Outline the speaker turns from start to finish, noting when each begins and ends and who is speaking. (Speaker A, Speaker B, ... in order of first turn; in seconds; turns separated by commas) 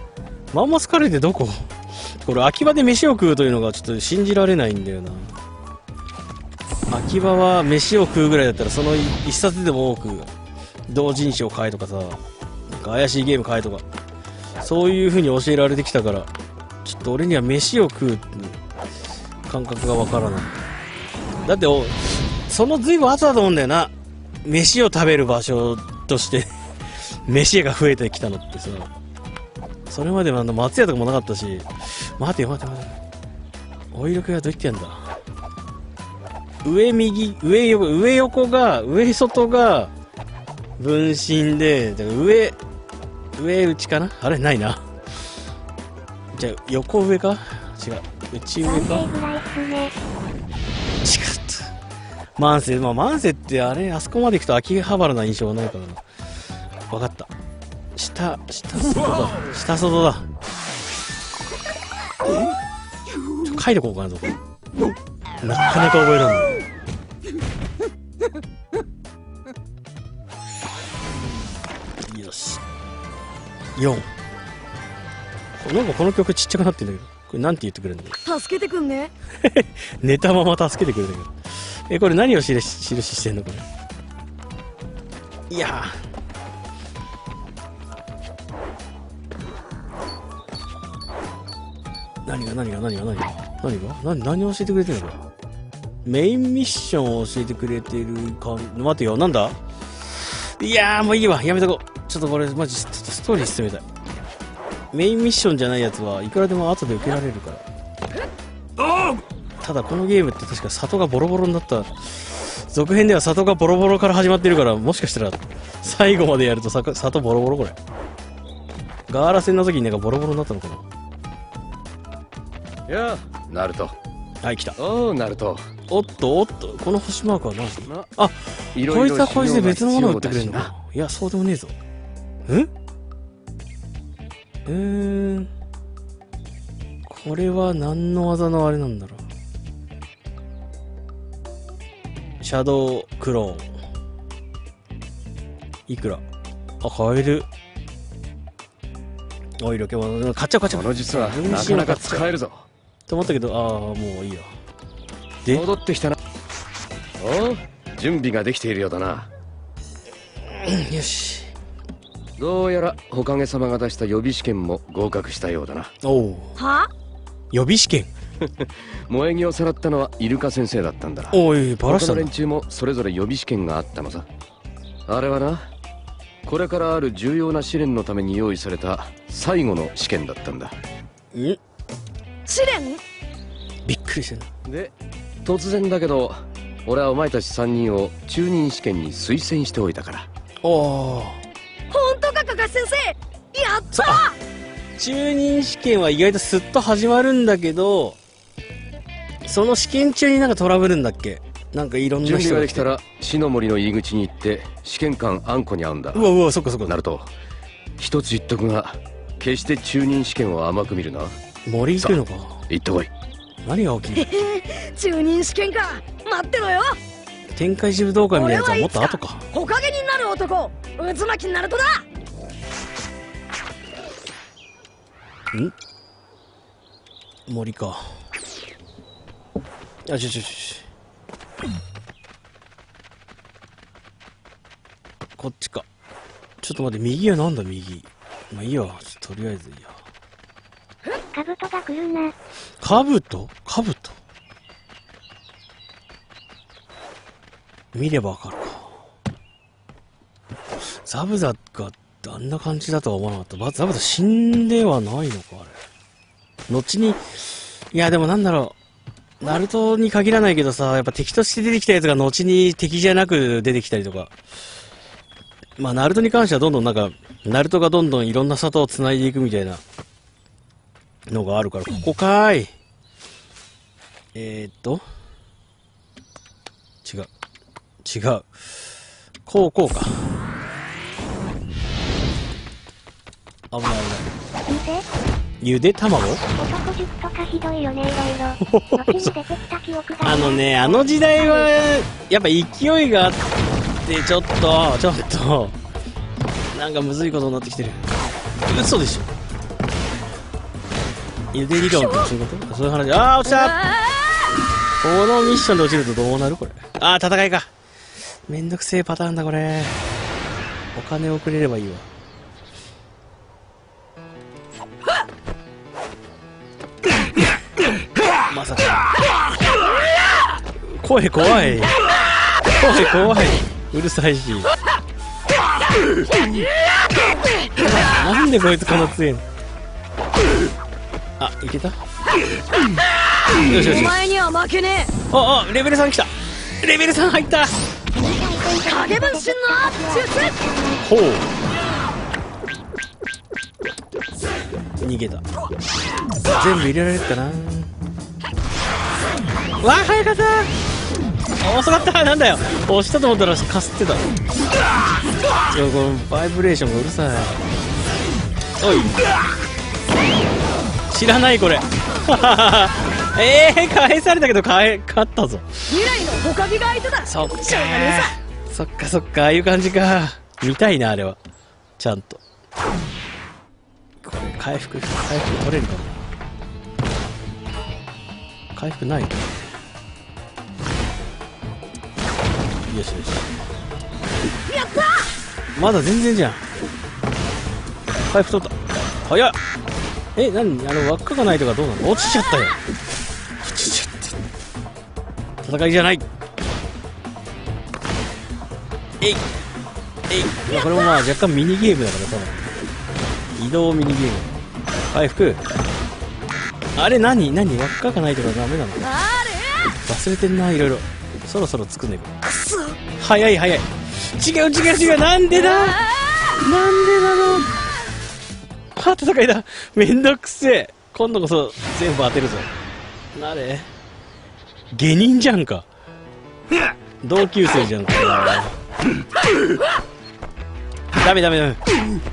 Speaker A: 0.5-5.3, Speaker A: 6.9-10.3, Speaker A: 10.9-13.8, Speaker A: 14.6-16.3, Speaker A: 16.8-18.6, Speaker A: 19.4-20.6, Speaker A: 21.4-23.9, Speaker A: 24.4-26.5, Speaker A: 27.0-28.9, Speaker A: 29.9-33.0, Speaker A: 33.9-35.0, Speaker A: 36.6-39.9, Speaker A: 40.8-42.6, Speaker A: 43.4-44.8, Speaker A: 46.3-49.0, Speaker B: 48.6-49.9, Speaker A: 51.0-51.7, Speaker A: 52.4-56.0, Speaker A: 56.9-57.3, Speaker A: 57.9-60.2, Speaker A: 63.4-64.3, Speaker A: 65.4-66.5, Speaker A: 72.0-72.6, Speaker A: 73.8-74.1, Speaker A: 75.6-78.2, Speaker C: 78.2-79.1, Speaker A: 79.4-83.6, Speaker A: 85.5-86.0, Speaker A: 92.2-95.2, Speaker A: 96.0-99.6, Speaker A: 100.3-103.8, Speaker A: 104.9-107.6, Speaker A: 109.6-117.8, Speaker A: 119.1-120.8, Speaker D: 122.9-124.0, Speaker A: 124.4-124.8, Speaker D: 124.8-125.6, Speaker A: 125.9-131.7, Speaker D: 128.7-130.7, Speaker A: 134.7-135.5, Speaker A: 137.1-139.2, Speaker A: 142.4-143.7, Speaker A: 145.9-146.2, Speaker A: 146.8-147.5, Speaker A: 149.6-152.3, Speaker D: 150.7-152.7, Speaker A: 153.1-154.5, Speaker D: 155.5-156.2, Speaker D: 157.2-159.3, Speaker A: 160.4-161.5, Speaker D: 162.4-165.9, Speaker A: 166.0-166.5, Speaker C: 166.6-166.9, Speaker A: 167.5-168.1, Speaker D: 168.4-174.3, Speaker A: 171.3-172.3, Speaker D: 175.1-175.7, Speaker D: 176.4-180.8, Speaker A: 181.3-181.6, Speaker C: 182.4-183.0, Speaker A: 183.8-184.5, Speaker D: 184.7-184.9, Speaker D: 185.4-190.3, Speaker A: 190.6-191.4, Speaker C: 191.9-194.4, Speaker A: 193.9-194.2, Speaker A: 195.0-198.2, Speaker A: 199.4-202.9, Speaker D: 202.2-206.3, Speaker A: 206.1-207.0, Speaker D: 206.8-207.3, Speaker D: 208.0-211.3, Speaker A: 211.7-212.6, Speaker D: 212.7-213.1, Speaker A: 213.6-214.3, Speaker C: 214.1-217.0, Speaker A: 217.5-219.4, Speaker C: 218.3-222.1, Speaker A: 227.5-228.1, Speaker A: 230.1-230.8, Speaker A: 235.4-235.8, Speaker A: 236.6-240.0, Speaker B: 241.3-242.3, Speaker A: 242.8-244.2, Speaker A: 247.9-248.9, Speaker A: 251.0-255.8, Speaker A: 256.7-258.7, Speaker A: 259.4-264.3, Speaker A: 265.8-269.8, Speaker A: 271.3-272.7, Speaker A: 274.3-275.0, Speaker A: 277.0-277.3, Speaker A: 278.0-278.5, Speaker A: 279.4-280.2, Speaker A: 283.7-284.3, Speaker B: 284.7-285.0, Speaker A: 285.6-286.4, Speaker B: 286.6-291.8, Speaker A: 288.6-289.4, Speaker A: 290.2-293.4, Speaker A: 294.0-295.8, Speaker A: 296.7-298.0, Speaker A: 298.6-299.3, Speaker A: 301.5-303.7, Speaker C: 301.8-302.3, Speaker C: 303.4-304.5, Speaker A: 305.0-307.7, Speaker A: 308.5-310.0, Speaker A: 310.9-312.1, Speaker A: 318.5-319.1, Speaker A: 320.8-322.0, Speaker A: 322.7-324.7, Speaker A: 327.8-329.4, Speaker A: 331.4-332.0, Speaker C: 333.6-335.1, Speaker A: 333.6-334.2, Speaker A: 335.3-337.8, Speaker B: 338.1-341.0, Speaker C: 338.9-340.6, Speaker A: 341.0-341.5, Speaker A: 345.0-345.4, Speaker A: 346.5-347.9, Speaker A: 349.8-350.7, Speaker A: 351.6-354.3, Speaker A: 355.7-357.6, Speaker A: 358.8-359.3, Speaker A: 361.1-365.8, Speaker C: 365.9-368.3, Speaker A: 367.2-371.4, Speaker A: 372.0-372.4, Speaker A: 374.2-376.3, Speaker A: 378.7-379.6, Speaker A: 382.9-383.5, Speaker C: 384.7-385.3, Speaker A: 385.7-386.6, Speaker A: 388.3-389.6, Speaker A: 390.4-392.8, Speaker A: 393.6-394.4, Speaker A: 395.6-396.2, Speaker A: 400.3-402.6, Speaker C: 400.7-401.1, Speaker A: 403.6-404.5, Speaker A: 405.1-405.6, Speaker A: 406.9-409.1, Speaker C: 409.0-409.9, Speaker A: 410.0-412.3, Speaker C: 412.4-413.0, Speaker A: 413.2-416.0, Speaker C: 415.5-416.6, Speaker A: 416.6-417.8, Speaker A: 418.9-422.7, Speaker A: 423.3-423.9, Speaker A: 424.9-425.9, Speaker A: 427.2-428.8, Speaker A: 431.2-431.8